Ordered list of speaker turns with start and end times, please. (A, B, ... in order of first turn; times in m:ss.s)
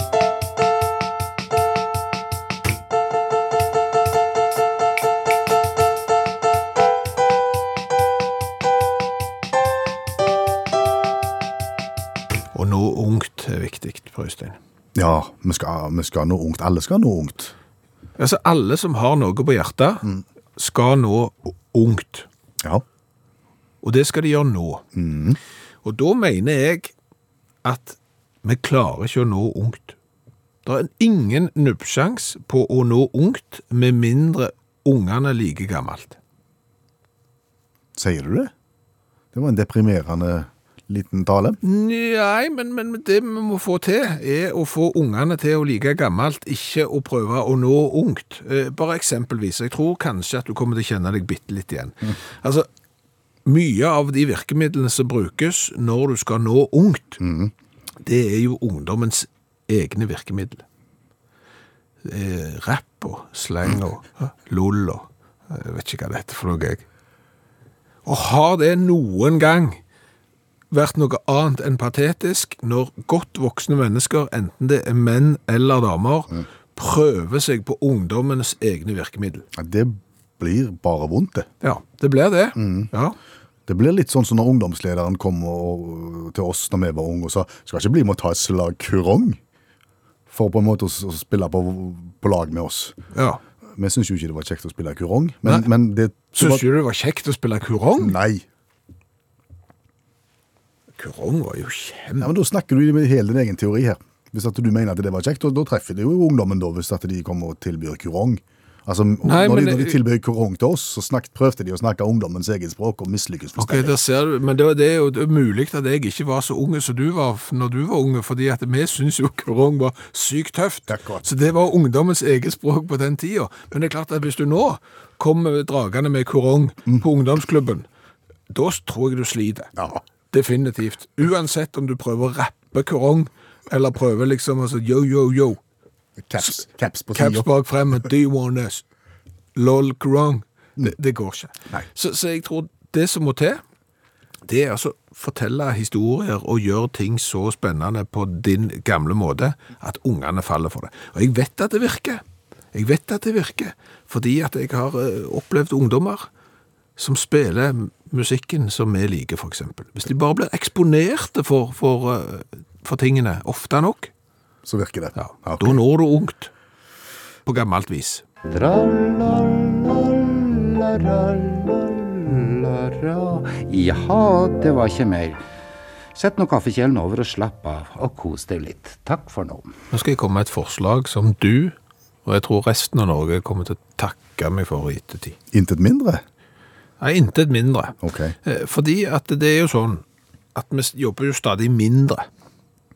0:12.5-0:14.6 A
0:14.9-0:17.5 B
0:18.2-0:20.0 A
0:20.6-0:22.3 A
0:23.8-0:24.8 A
0:24.9-0:25.4 B
0:25.8-0:26.9 A
0:27.6-0:30.0 A
0:30.6-0:36.2 A
0:38.0-0:38.5 B
0:39.3-0:41.6 B
0:41.6-0:52.7 A
0:53.4-0:57.2 A
0:57.2-0:57.5 B
0:58.0-1:00.6 A
1:02.0-1:06.8 A
1:08.0-1:09.8 A
1:10.7-1:19.4 A
1:19.5-1:21.5 B
1:21.6-1:23.2 A
1:22.6-1:22.9 B
1:23.7-1:29.4 B
1:30.3-1:33.0 B
1:33.1-1:33.4 A
1:33.8-1:36.6 B
1:36.4-1:38.2 A
1:38.0-1:38.4 B
1:41.0-1:42.3 A
1:42.2-1:53.9 B
1:49.2-1:50.0 A
1:53.6-2:07.8 A
2:00.9-2:01.2 B
2:08.5-2:09.7 A
2:09.8-2:10.0 B
2:10.3-2:15.6 A
2:16.2-2:17.5 B
2:17.1-2:18.8 A
2:19.5-2:23.6 A
2:24.4-2:32.2 A
2:32.7-2:36.3 A
2:37.0-2:44.1 A
2:44.6-2:45.8 B
2:45.2-2:46.5 A
2:47.4-2:48.2 A
2:48.5-2:55.4 C
2:56.1-2:59.7 C
2:59.9-3:05.4 A
3:05.5-3:06.2 B
3:07.0-3:10.0 A
3:08.0-3:08.3 B
3:10.5-3:12.2 A